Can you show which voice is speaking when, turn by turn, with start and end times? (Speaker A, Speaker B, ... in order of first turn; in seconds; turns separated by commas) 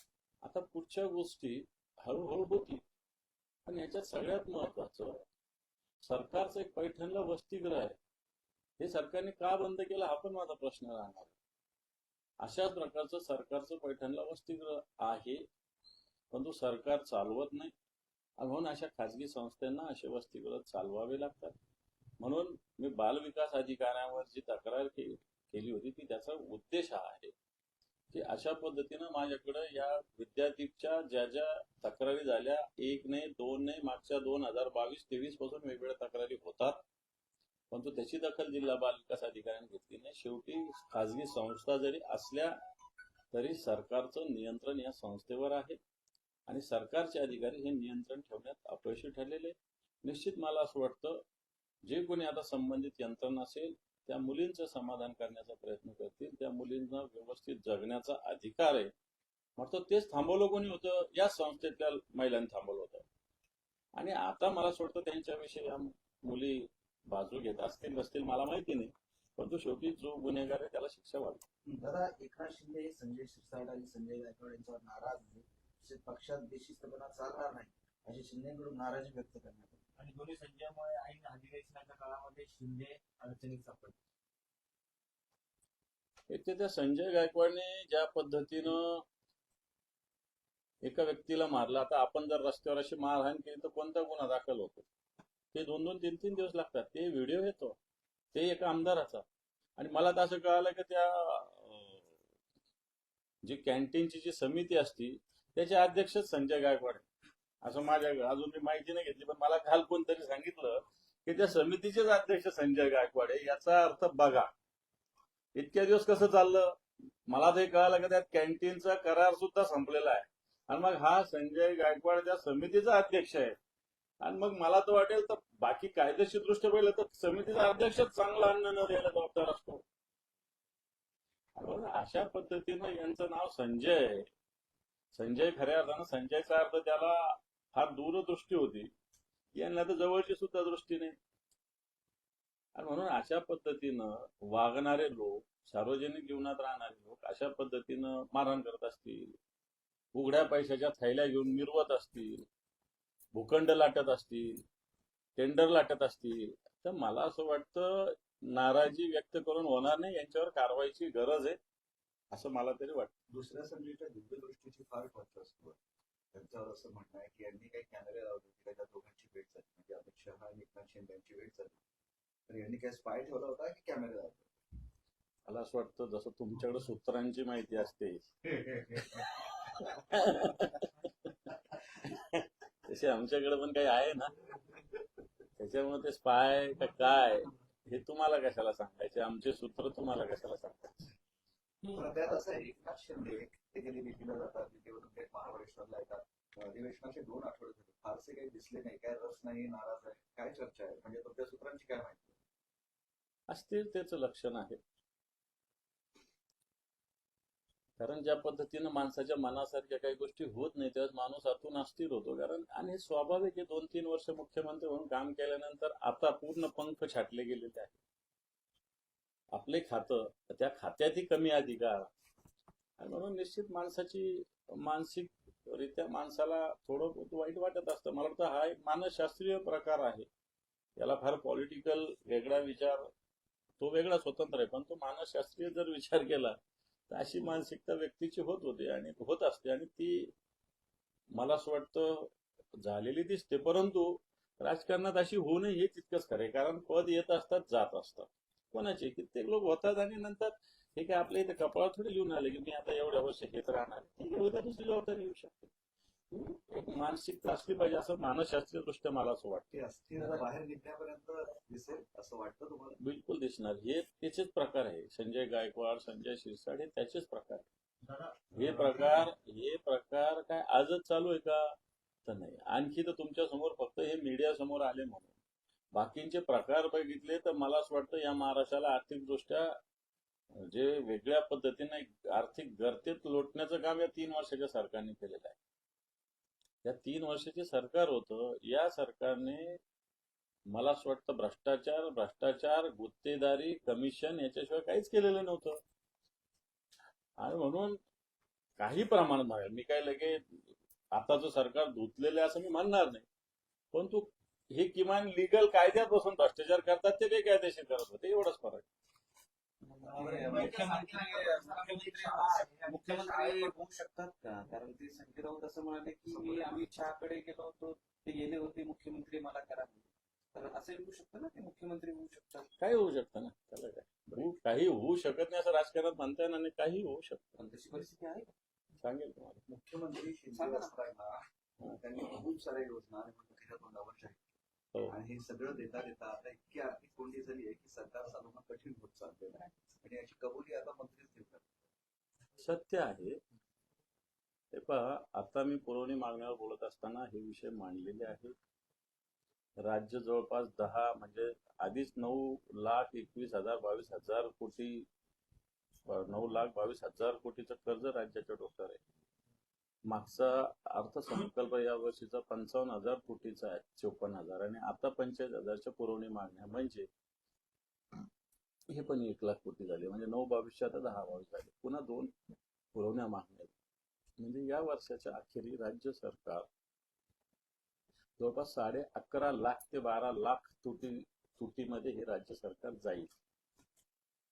Speaker A: 0.4-2.8, Speaker A: 3.7-5.2, Speaker A: 6.0-8.0, Speaker A: 8.8-11.3, Speaker A: 12.4-15.5, Speaker A: 16.3-17.7, Speaker A: 18.4-21.6, Speaker A: 22.2-27.3, Speaker A: 28.1-36.8, Speaker A: 37.7-42.6, Speaker A: 43.3-45.8, Speaker A: 46.5-51.2, Speaker A: 51.9-58.9, Speaker A: 59.6-63.0, Speaker A: 64.0-71.5, Speaker B: 71.8-79.8, Speaker C: 80.0-84.0, Speaker A: 86.3-89.0, Speaker A: 90.8-94.9, Speaker A: 95.5-97.8, Speaker A: 98.3-99.2, Speaker A: 99.8-102.1, Speaker A: 103.4-107.1, Speaker A: 107.6-114.5, Speaker A: 115.5-123.6, Speaker A: 124.2-129.8, Speaker A: 131.6-134.3, Speaker A: 135.1-138.9, Speaker A: 139.5-141.2, Speaker A: 142.8-149.4, Speaker A: 150.1-152.5, Speaker A: 153.3-154.6, Speaker A: 155.4-161.6, Speaker A: 162.3-163.1, Speaker D: 163.3-165.8, Speaker D: 166.3-171.8, Speaker D: 172.5-174.5, Speaker A: 175.5-178.3, Speaker D: 178.6-179.2, Speaker A: 179.9-180.9, Speaker A: 182.1-184.3, Speaker A: 185.6-191.1, Speaker D: 191.9-202.4, Speaker A: 203.5-204.8, Speaker A: 208.0-218.0, Speaker A: 219.5-222.1, Speaker A: 223.0-230.3, Speaker A: 231.0-233.1, Speaker A: 233.8-236.6, Speaker A: 237.1-240.3, Speaker A: 241.3-255.7, Speaker A: 256.3-259.8, Speaker D: 259.7-263.0, Speaker C: 260.2-260.4, Speaker A: 263.0-267.7, Speaker C: 268.0-269.3, Speaker A: 268.6-271.8, Speaker A: 272.3-275.4, Speaker A: 275.9-279.8, Speaker A: 280.6-285.6, Speaker A: 286.8-289.8, Speaker A: 290.7-295.8, Speaker A: 297.4-298.0, Speaker A: 298.8-303.2, Speaker A: 303.9-308.9, Speaker E: 309.9-322.7, Speaker C: 310.0-313.7, Speaker C: 316.3-316.8, Speaker A: 322.8-327.5, Speaker E: 327.6-328.5, Speaker A: 329.0-329.6, Speaker D: 329.7-331.4, Speaker E: 330.5-331.1, Speaker D: 332.0-334.5, Speaker D: 335.1-341.9, Speaker A: 342.6-343.4, Speaker A: 344.7-348.6, Speaker A: 349.8-355.1, Speaker A: 356.1-359.0, Speaker A: 360.1-367.1, Speaker A: 368.9-372.3, Speaker A: 372.9-373.7, Speaker A: 374.4-376.7, Speaker A: 378.4-383.3